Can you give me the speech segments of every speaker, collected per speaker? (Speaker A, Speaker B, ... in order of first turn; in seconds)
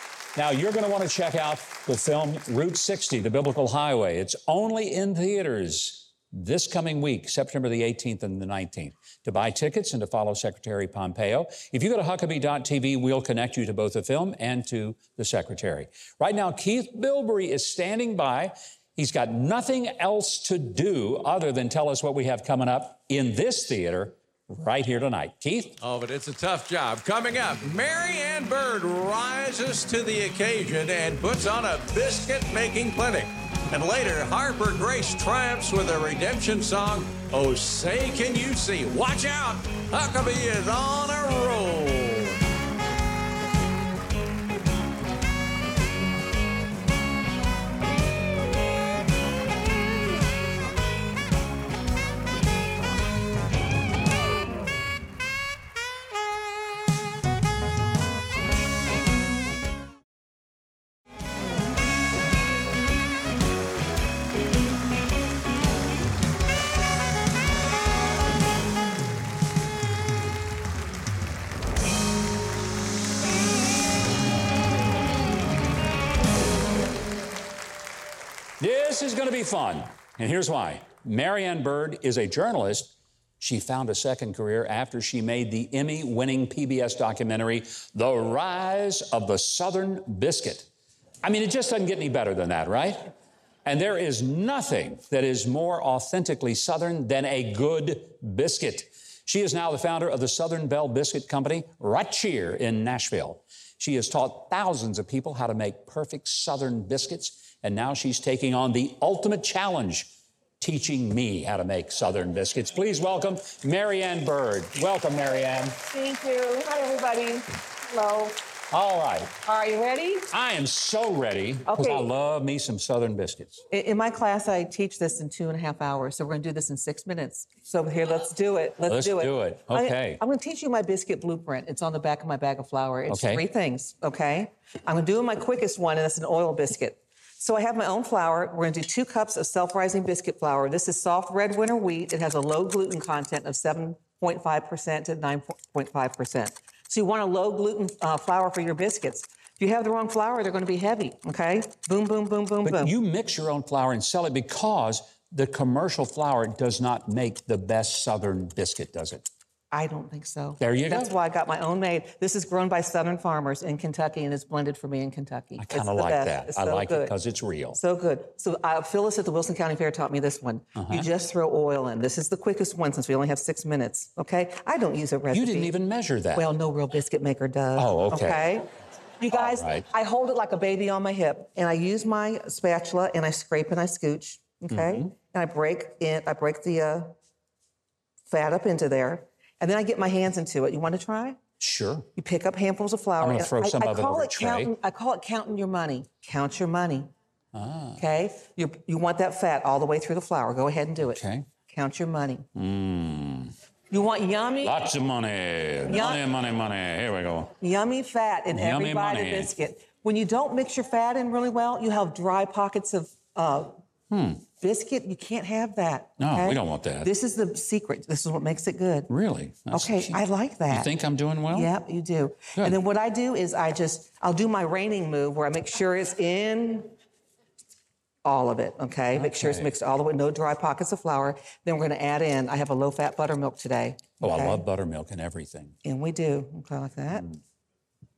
Speaker A: 0.3-25.8, 78.6-90.7, 91.2-93.1, 93.7-115.8, 118.7-119.4, 120.3-123.6, 128.9-130.2, 133.1-133.5, 152.6-159.3, 160.6-161.1, 165.6-167.8, 170.8-171.1, 175.3-176.5, 177.8-178.5, 179.3-179.9, 184.7-185.1, 191.6-192.1, 193.2-194.7, 197.5-198.0, 201.1-201.5, 202.6-203.5, 204.6-207.5, 208.5-209.5, 214.1-214.4, 216.2-217.1, 219.1-221.7, 229.1-229.7, 234.2-235.8, 237.1-237.4
Speaker B: 25.8-42.4
Speaker C: 115.9-118.4, 119.4-120.3, 121.7-122.1, 123.7-152.9, 159.7-167.2, 167.7-175.7, 176.3-178.7, 179.2-187.2, 188.3-191.4, 192.2-197.1, 198.0-202.5, 203.9-204.8, 205.9-206.2, 207.6-213.8, 214.6-219.1, 219.7-220.9, 221.5-226.9, 228.2-234.6, 235.8-237.2